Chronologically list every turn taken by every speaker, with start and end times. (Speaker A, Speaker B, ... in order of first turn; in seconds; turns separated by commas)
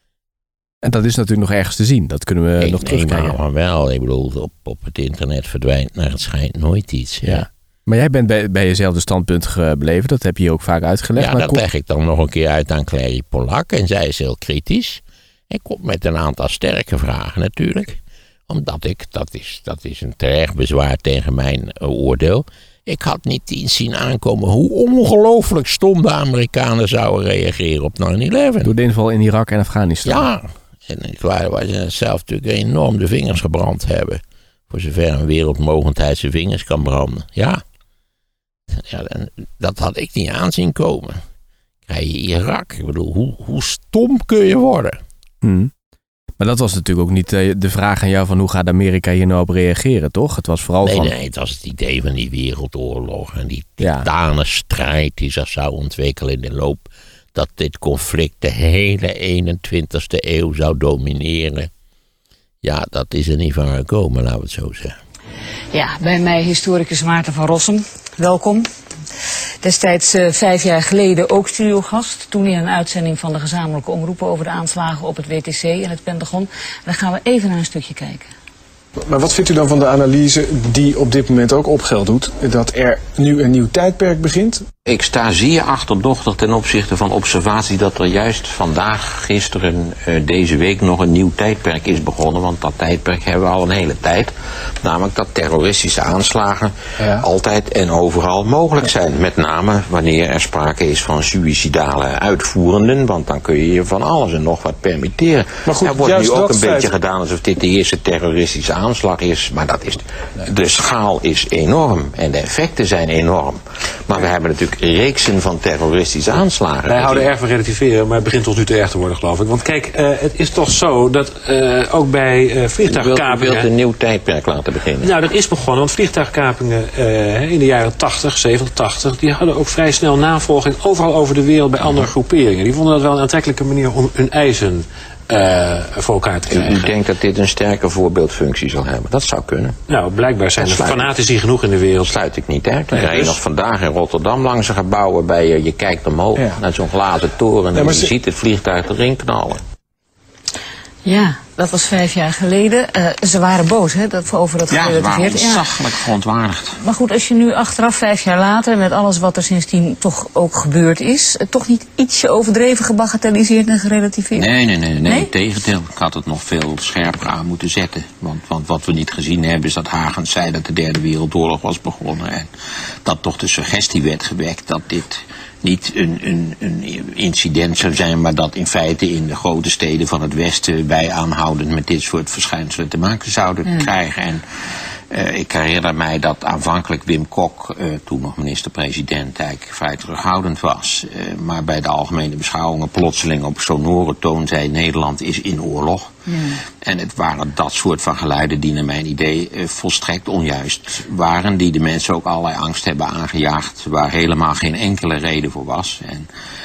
Speaker A: 0.8-3.4, Speaker B: 2.6-7.5, Speaker A: 7.2-11.6, Speaker B: 11.2-28.7, Speaker A: 28.6-30.3, Speaker B: 30.1-37.6, Speaker B: 38.7-41.2, Speaker B: 41.9-45.0, Speaker A: 45.4-45.7, Speaker A: 46.4-51.1, Speaker B: 50.8-61.7, Speaker A: 53.8-54.1, Speaker B: 62.6-65.0, Speaker C: 65.7-68.7, Speaker C: 69.6-78.3, Speaker D: 79.0-84.7, Speaker E: 84.8-94.3, Speaker E: 94.8-117.3, Speaker D: 105.8-106.9, Speaker F: 116.9-123.7, Speaker E: 122.8-125.1, Speaker F: 125.0-136.9, Speaker E: 136.5-139.8, Speaker F: 139.9-142.1, Speaker E: 140.6-141.1, Speaker E: 142.0-149.6, Speaker F: 142.9-143.4, Speaker D: 147.7-148.1, Speaker C: 151.1-155.7, Speaker E: 154.7-156.8, Speaker C: 156.8-164.5, Speaker E: 164.3-172.5, Speaker C: 165.1-165.3, Speaker E: 173.1-184.4, Speaker E: 185.1-206.3, Speaker C: 196.3-196.6